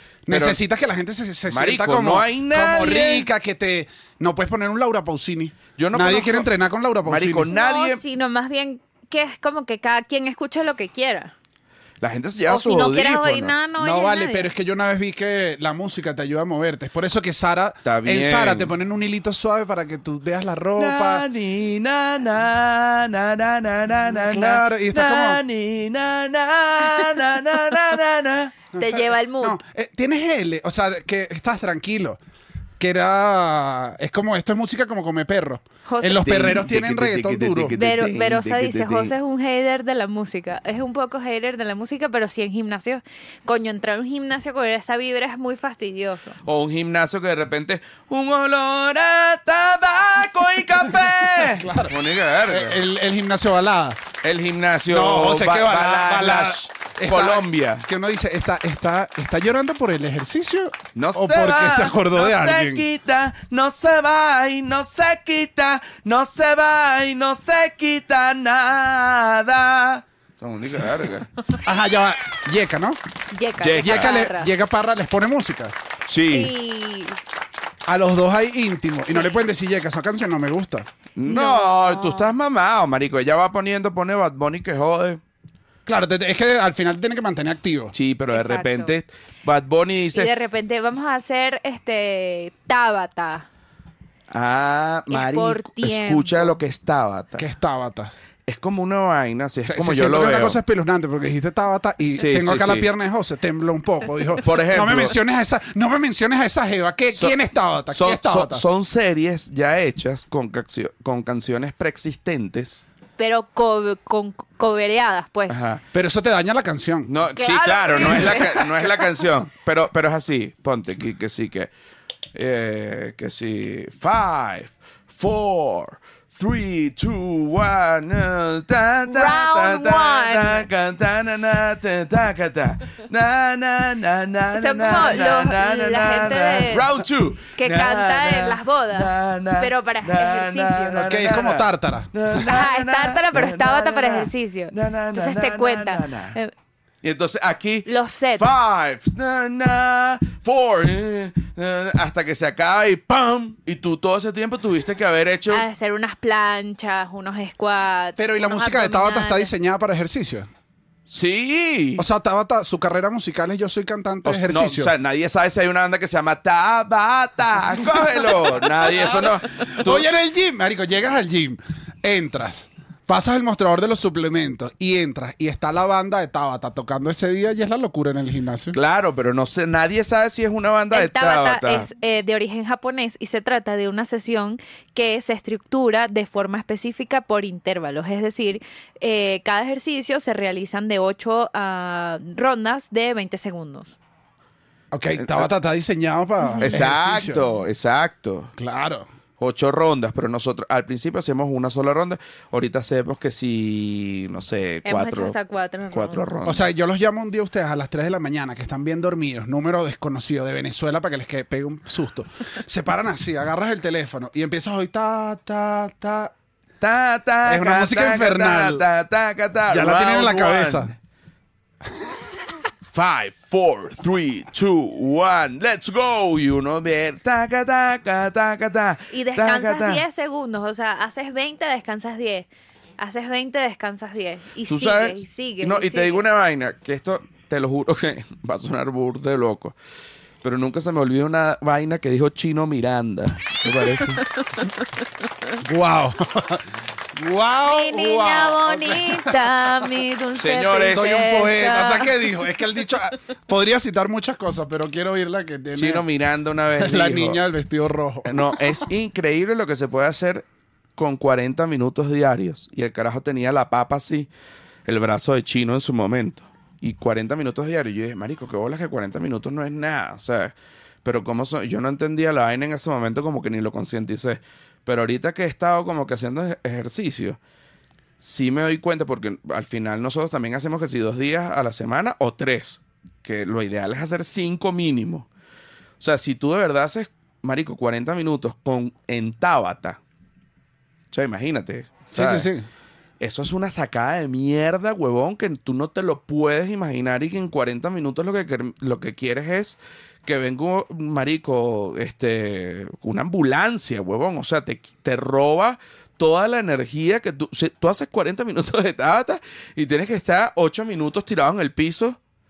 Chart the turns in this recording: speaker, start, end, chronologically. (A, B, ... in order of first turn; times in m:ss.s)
0:00.3-0:07.5 A
0:00.3-0:00.6 B
0:01.5-0:03.3 B
0:05.8-0:06.5 B
0:07.0-0:08.0 B
0:07.5-0:11.3 C
0:12.0-0:13.6 B
0:12.5-0:14.5 C
0:13.8-0:21.2 A
0:17.8-0:18.7 B
0:20.8-0:28.6 B
0:24.1-0:25.4 A
0:28.8-0:29.6 C
0:28.8-0:32.2 A
0:32.8-0:37.8 A
0:35.9-0:36.3 C
0:36.2-0:39.1 B
0:37.8-0:46.4 C
0:46.4-0:52.8 B
0:50.9-0:51.9 A
0:52.5-0:54.0 A
0:54.2-0:57.9 B
0:54.9-1:02.8 A
1:01.0-1:11.3 B
1:11.6-1:13.0 A
1:13.3-1:14.5 C
1:13.6-1:14.2 B
1:13.8-1:15.8 A
1:16.1-1:16.5 B
1:16.3-1:17.2 C
1:17.9-1:20.9 A
1:21.2-1:25.2 B
1:21.2-1:22.3 C
1:25.9-1:27.9 A
1:27.9-1:30.3 B
1:28.3-1:28.9 C
1:30.1-1:33.5 C
1:34.3-1:37.5 B
1:35.1-1:36.5 C
1:37.4-1:38.1 A
1:38.5-1:40.6 B
1:39.6-1:48.6 A
1:42.1-1:42.9 B
1:44.4-1:45.2 B
1:47.9-1:52.9 B
1:53.2-1:55.6 C
1:55.5-1:55.8 B
1:55.9-1:57.1 A
1:57.1-2:01.7 B
1:57.3-1:59.1 C
2:02.3-2:26.4 B
2:09.1-2:10.7 C
2:14.5-2:16.9 C
2:17.6-2:21.1 C
2:21.0-2:22.1 A
2:22.4-2:26.5 C
2:27.0-2:35.6 B
2:27.9-2:28.6 C
2:35.5-2:39.5 C
2:38.2-2:40.5 A
2:41.1-2:42.1 B
2:42.0-2:44.9 A
2:44.2-2:50.1 B
2:49.6-2:58.8 A
2:58.7-3:01.9 B
3:00.9-3:14.0 C
3:14.9-3:17.4 A
3:15.2-3:15.5 B
3:16.6-3:18.5 B
3:18.6-3:19.1 A
3:19.4-3:25.4 B
3:24.8-3:26.2 C
3:25.9-3:26.7 B
3:26.5-3:36.3 A
3:36.8-3:41.0 B
3:37.4-3:38.8 A
3:39.7-3:40.9 A
3:42.9-3:50.0 B
3:49.1-3:52.5 C
3:53.0-3:56.3 C
3:54.7-3:59.8 B
4:00.4-4:04.2 B
4:05.6-4:09.9 A
4:07.7-4:12.2 C
4:10.4-4:11.4 B
4:10.9-4:16.0 A
4:15.8-4:17.4 B
4:16.8-4:18.9 A
4:18.2-4:24.3 B
4:24.9-4:37.4 B
4:38.2-4:45.3 B
4:46.0-4:50.0 B
4:51.1-4:52.5 B
4:52.1-4:52.7 A
4:53.2-5:12.2 B